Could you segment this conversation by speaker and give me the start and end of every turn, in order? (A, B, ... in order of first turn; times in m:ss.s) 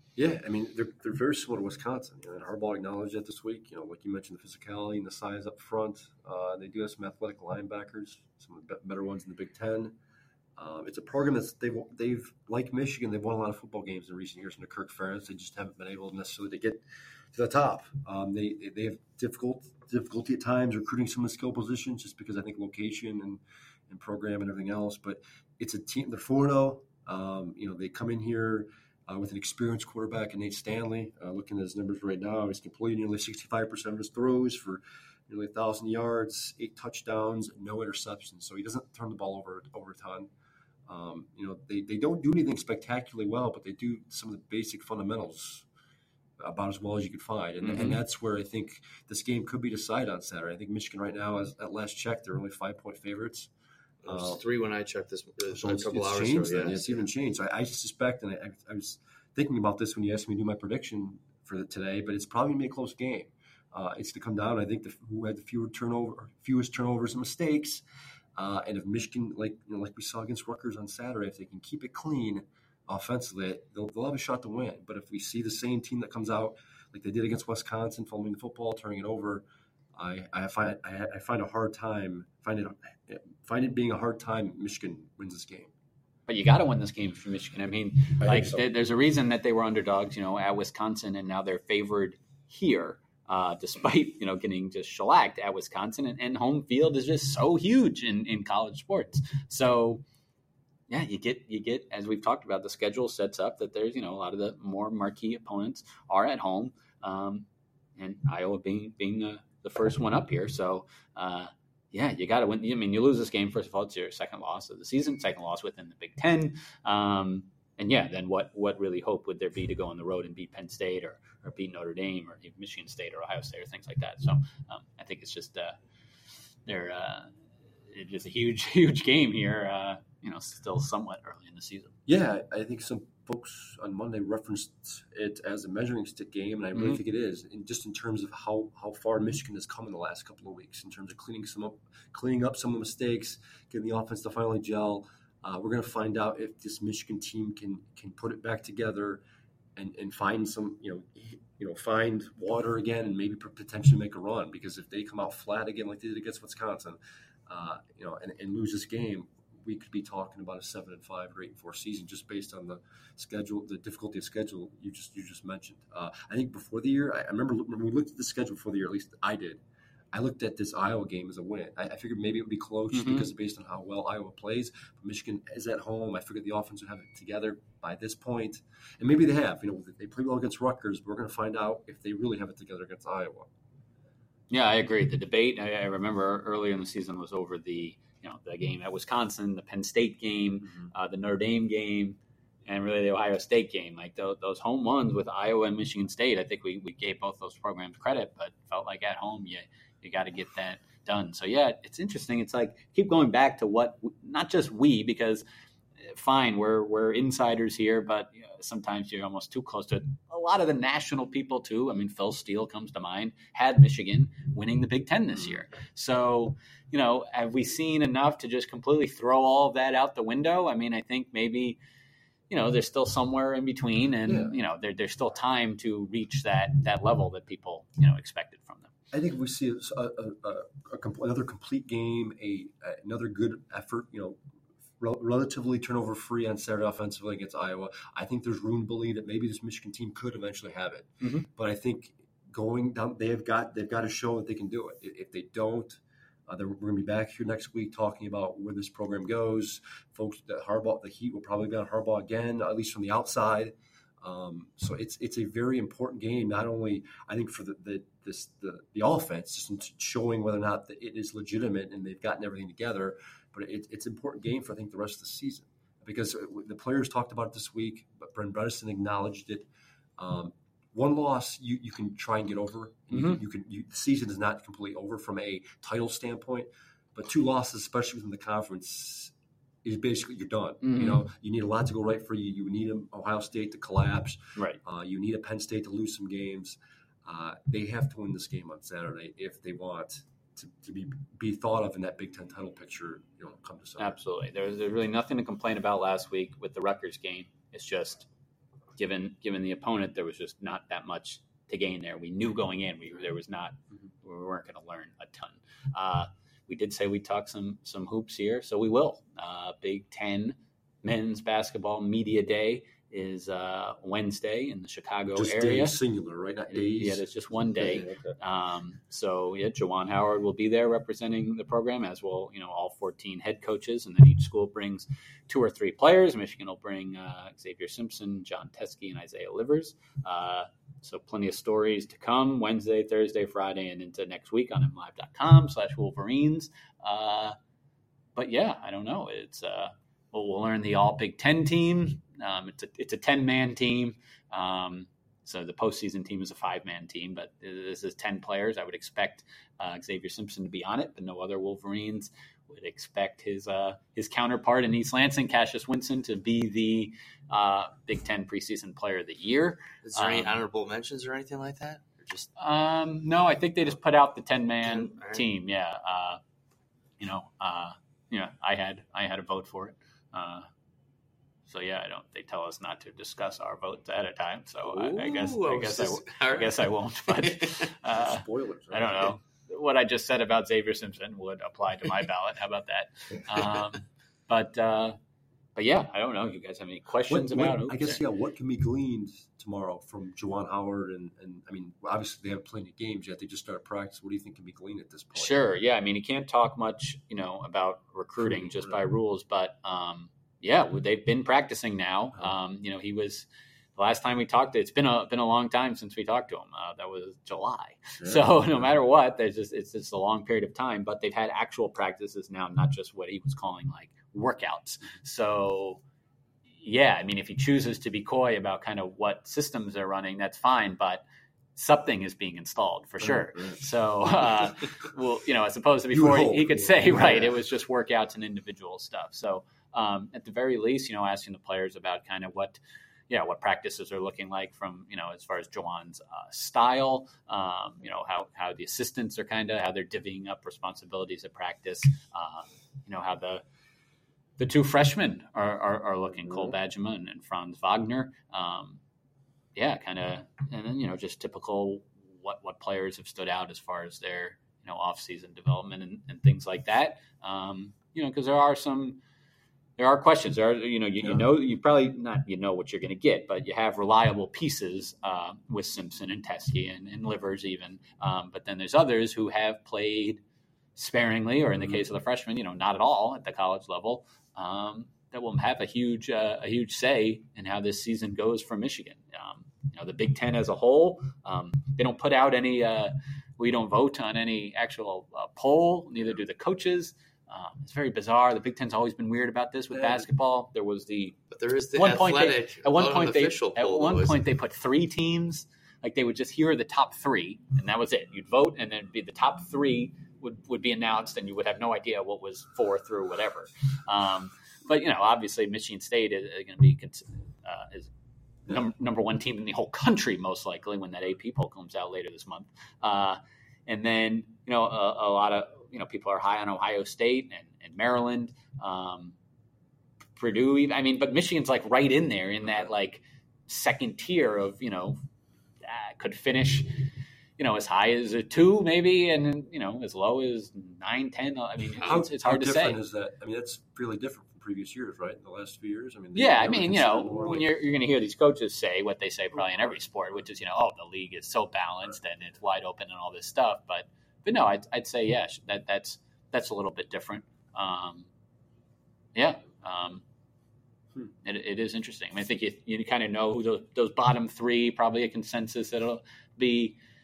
0:00.2-0:10.0 A
0:10.6-0:40.3 A
0:40.9-0:45.7 A
0:46.4-0:53.5 A
0:47.6-0:48.0 B
0:54.0-0:57.0 C
0:54.1-0:54.4 A
0:55.5-1:07.8 A
1:08.4-1:19.4 A
1:20.0-1:25.7 A
1:26.3-1:40.0 B
1:28.2-1:28.7 A
1:40.9-1:47.5 B
1:48.0-2:05.8 B
2:06.7-2:07.3 B
2:07.9-2:12.0 B
2:12.1-2:29.2 A
2:16.8-2:17.0 B
2:29.8-2:49.6 A
2:50.1-3:03.5 A
2:52.9-2:53.3 B
3:04.5-3:25.4 B
3:26.1-3:41.8 B
3:42.5-3:48.9 B
3:44.3-3:44.6 A
3:49.1-3:54.4 A
3:55.0-4:39.3 A
4:01.2-4:01.5 B
4:33.1-4:33.4 B
4:39.8-4:54.2 A
4:40.8-4:41.2 B
4:54.0-4:58.3 B
4:59.0-5:16.0 B
5:15.4-5:18.4 A
5:16.7-5:37.6 B
5:38.4-6:00.6 B
6:00.0-6:02.5 C
6:02.6-6:06.4 B
6:04.8-6:05.4 C
6:07.2-6:10.7 B
6:11.7-6:25.2 B
6:14.8-6:17.9 C
6:18.1-6:19.4 A
6:25.8-6:28.2 B
6:27.3-6:35.6 A
6:35.4-6:56.0 B
6:38.4-6:39.0 A
6:48.2-6:48.5 A
6:56.8-7:01.2 B
7:01.8-7:23.6 B
7:03.2-7:03.8 A
7:06.1-7:07.6 A
7:24.6-7:29.0 B
7:29.8-7:39.2 B
7:40.0-7:50.4 B
7:51.0-8:11.4 B
8:11.5-8:14.4 C
8:12.0-8:28.1 B
8:28.7-8:39.4 B
8:40.4-8:45.2 B
8:45.8-8:46.9 B
8:47.6-8:53.0 B
8:52.0-8:57.7 A
8:56.4-9:08.3 B
9:09.4-9:10.2 B
9:11.4-9:17.0 B